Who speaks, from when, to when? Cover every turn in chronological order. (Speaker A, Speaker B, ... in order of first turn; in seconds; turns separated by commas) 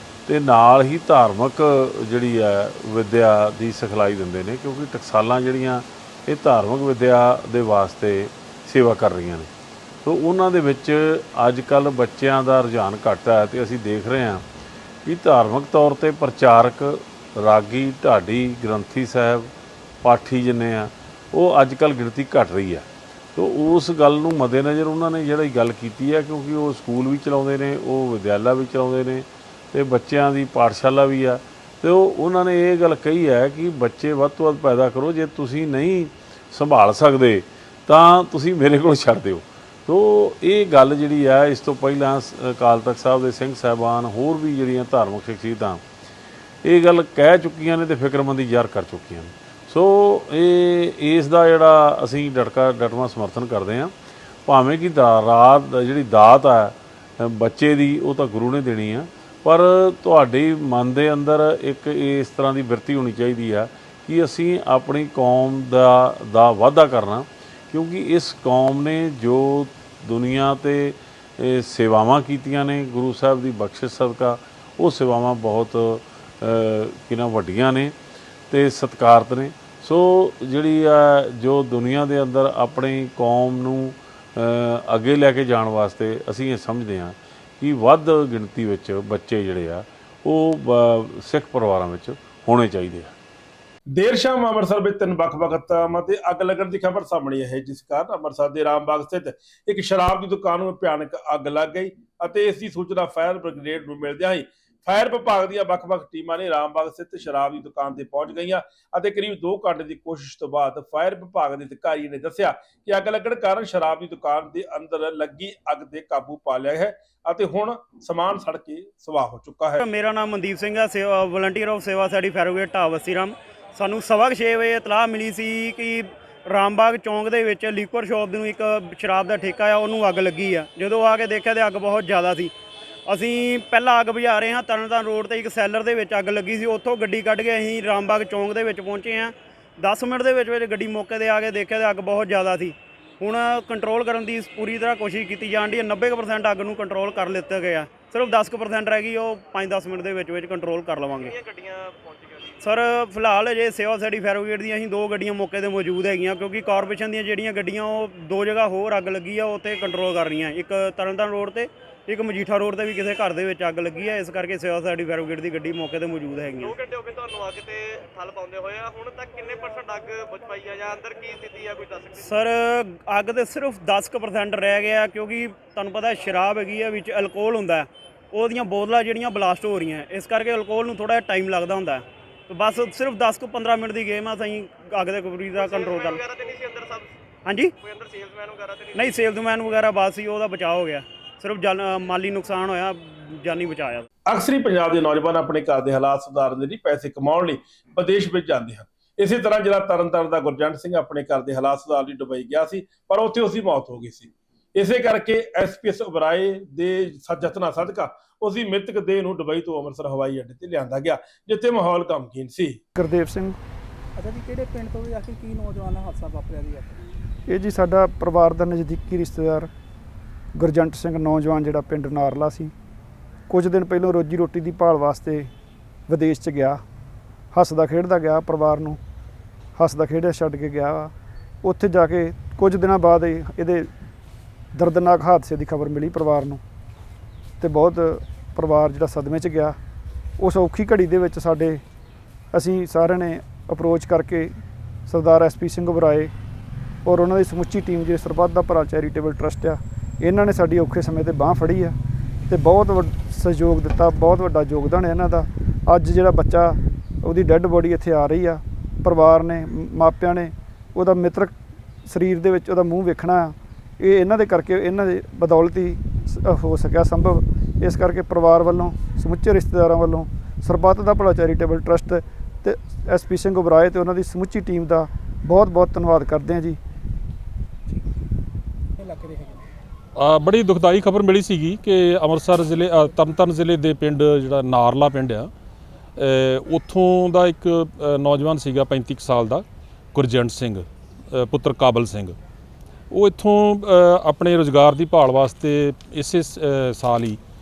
Speaker A: 0.3-9.5, Speaker A: 10.0-14.4, Speaker A: 15.0-19.5, Speaker A: 20.0-45.8, Speaker A: 46.6-53.9, Speaker A: 54.5-78.0, Speaker A: 78.5-93.1, Speaker B: 94.0-119.8, Speaker C: 119.8-132.5, Speaker C: 133.1-151.3, Speaker D: 151.2-152.7, Speaker C: 152.6-166.8, Speaker D: 166.6-172.3, Speaker C: 172.2-186.2, Speaker D: 185.5-187.1, Speaker C: 187.5-187.7, Speaker D: 187.8-189.2, Speaker C: 188.9-194.1, Speaker B: 194.3-212.8, Speaker E: 212.9-213.6, Speaker F: 214.2-217.0, Speaker E: 217.5-219.7, Speaker E: 220.5-222.7, Speaker E: 223.5-225.5, Speaker E: 226.1-226.8, Speaker E: 227.5-229.0, Speaker E: 229.8-231.1, Speaker E: 231.6-233.9, Speaker E: 234.8-236.6, Speaker E: 237.6-239.8, Speaker E: 240.4-241.8, Speaker E: 242.5-246.3, Speaker E: 247.0-252.0, Speaker E: 252.5-261.5, Speaker E: 262.1-276.8, Speaker F: 279.0-279.6, Speaker G: 280.2-285.5, Speaker G: 286.1-292.4, Speaker G: 293.1-297.4